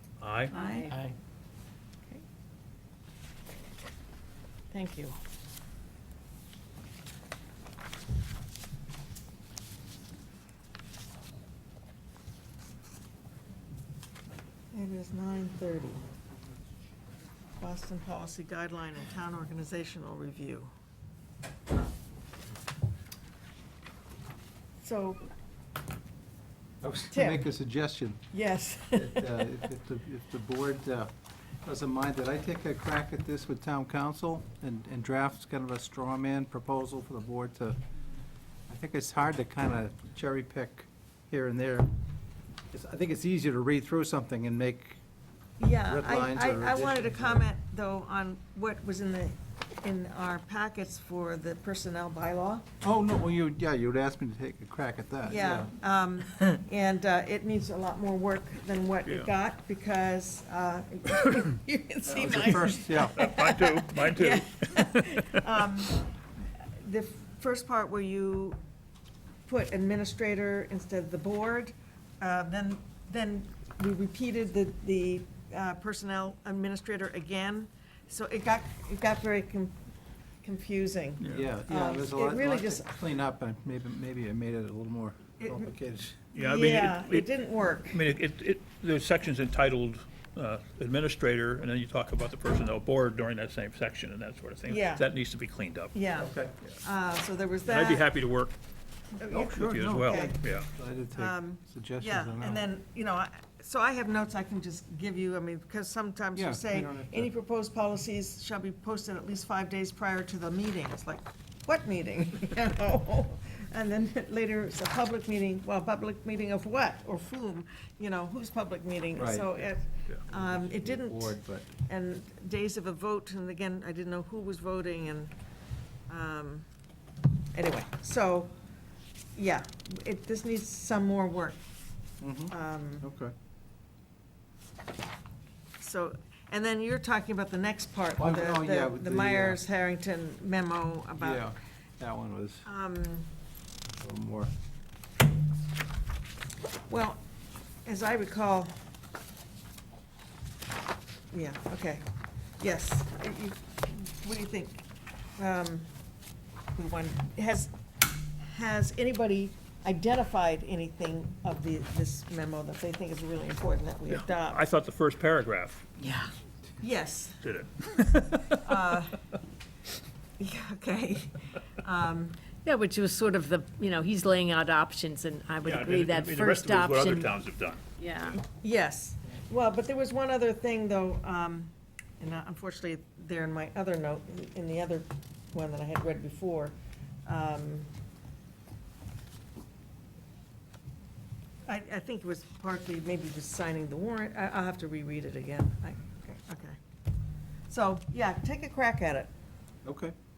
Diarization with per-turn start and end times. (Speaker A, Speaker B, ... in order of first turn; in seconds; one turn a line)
Speaker A: 0.2-0.5
Speaker B: 0.5-0.9
Speaker C: 0.5-0.9
Speaker B: 4.7-5.2
Speaker B: 14.7-16.1
Speaker B: 17.6-20.7
Speaker B: 24.8-25.2
Speaker D: 26.8-28.2
Speaker B: 27.1-27.5
Speaker B: 28.3-29.7
Speaker D: 28.9-31.1
Speaker D: 31.6-37.8
Speaker D: 38.7-41.9
Speaker D: 42.7-45.0
Speaker B: 45.6-52.7
Speaker D: 45.9-47.5
Speaker D: 52.8-55.7
Speaker B: 55.2-68.6
Speaker D: 62.1-63.3
Speaker A: 63.2-65.5
Speaker B: 69.5-79.9
Speaker B: 80.4-82.9
Speaker A: 81.2-81.5
Speaker D: 81.3-86.3
Speaker B: 85.4-85.7
Speaker A: 86.3-87.3
Speaker B: 86.4-88.0
Speaker A: 87.9-95.9
Speaker B: 94.7-95.1
Speaker B: 95.9-98.1
Speaker D: 96.2-96.5
Speaker A: 97.7-98.5
Speaker B: 99.2-100.4
Speaker A: 99.3-100.7
Speaker D: 99.4-102.7
Speaker B: 101.1-125.3
Speaker D: 106.3-107.3
Speaker D: 119.2-119.7
Speaker D: 120.3-121.7
Speaker B: 126.1-126.7
Speaker B: 127.5-128.5
Speaker B: 129.3-131.6
Speaker D: 132.2-133.3
Speaker B: 132.5-133.1
Speaker B: 135.8-141.5
Speaker D: 138.2-139.6
Speaker D: 141.2-142.7
Speaker B: 142.7-143.3
Speaker D: 143.9-144.5
Speaker B: 146.9-147.2
Speaker B: 147.8-148.7
Speaker B: 151.3-152.1
Speaker B: 152.6-155.9
Speaker B: 156.8-157.7
Speaker B: 158.3-164.6
Speaker A: 164.1-165.9
Speaker C: 166.0-166.3
Speaker B: 166.8-167.4
Speaker A: 167.4-168.7
Speaker B: 168.6-169.2
Speaker B: 170.4-172.5
Speaker C: 172.6-177.4
Speaker A: 175.6-177.8
Speaker C: 178.0-178.4
Speaker B: 178.3-187.9
Speaker B: 191.7-196.8
Speaker B: 197.7-199.3
Speaker D: 199.8-200.2